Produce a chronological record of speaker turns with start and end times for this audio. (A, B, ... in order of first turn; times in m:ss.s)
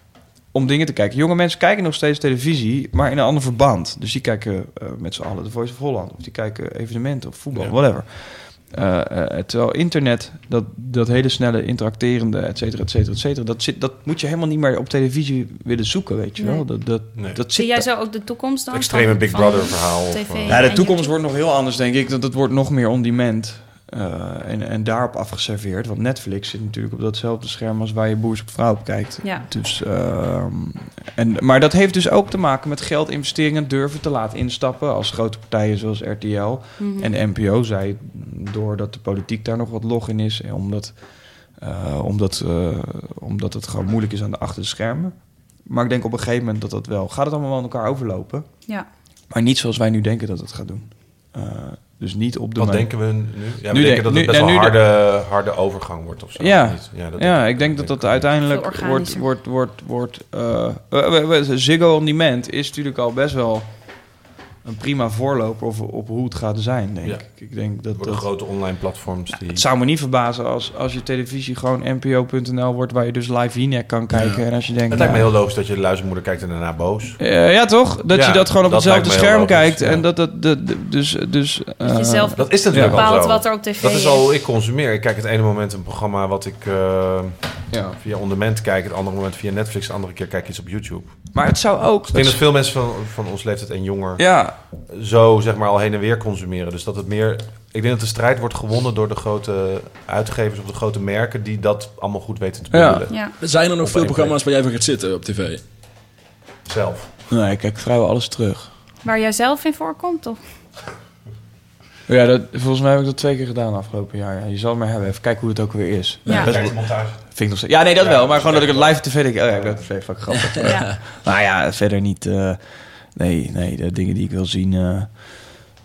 0:00.5-0:17.9 A
0:07.5-0:07.8 B
0:16.4-0:21.1 C
0:17.1-0:17.4 B
0:18.7-0:20.7 B
0:20.5-0:54.8 A
0:29.2-0:29.5 C
0:36.8-0:37.1 C
0:52.6-0:58.3 B
0:56.4-1:08.4 A
0:58.4-0:59.2 C
1:07.0-1:09.6 B
1:09.3-1:15.3 A
1:14.1-1:14.4 D
1:14.9-1:17.3 B
1:17.2-1:23.2 A
1:18.1-1:20.1 B
1:21.8-1:24.2 C
1:22.4-1:31.5 B
1:27.7-1:28.0 A
1:31.3-1:32.4 A
1:32.1-1:44.4 B
1:34.2-1:34.6 A
1:42.7-1:43.1 A
1:43.1-1:43.3 C
1:43.4-1:45.6 D
1:46.6-1:47.1 B
1:47.3-1:48.7 A
1:49.0-1:50.4 C
1:52.1-2:05.7 A
1:56.2-1:56.6 D
1:56.3-1:56.5 C
1:56.3-1:57.3 B
1:58.0-2:00.0 B
2:00.6-2:00.9 C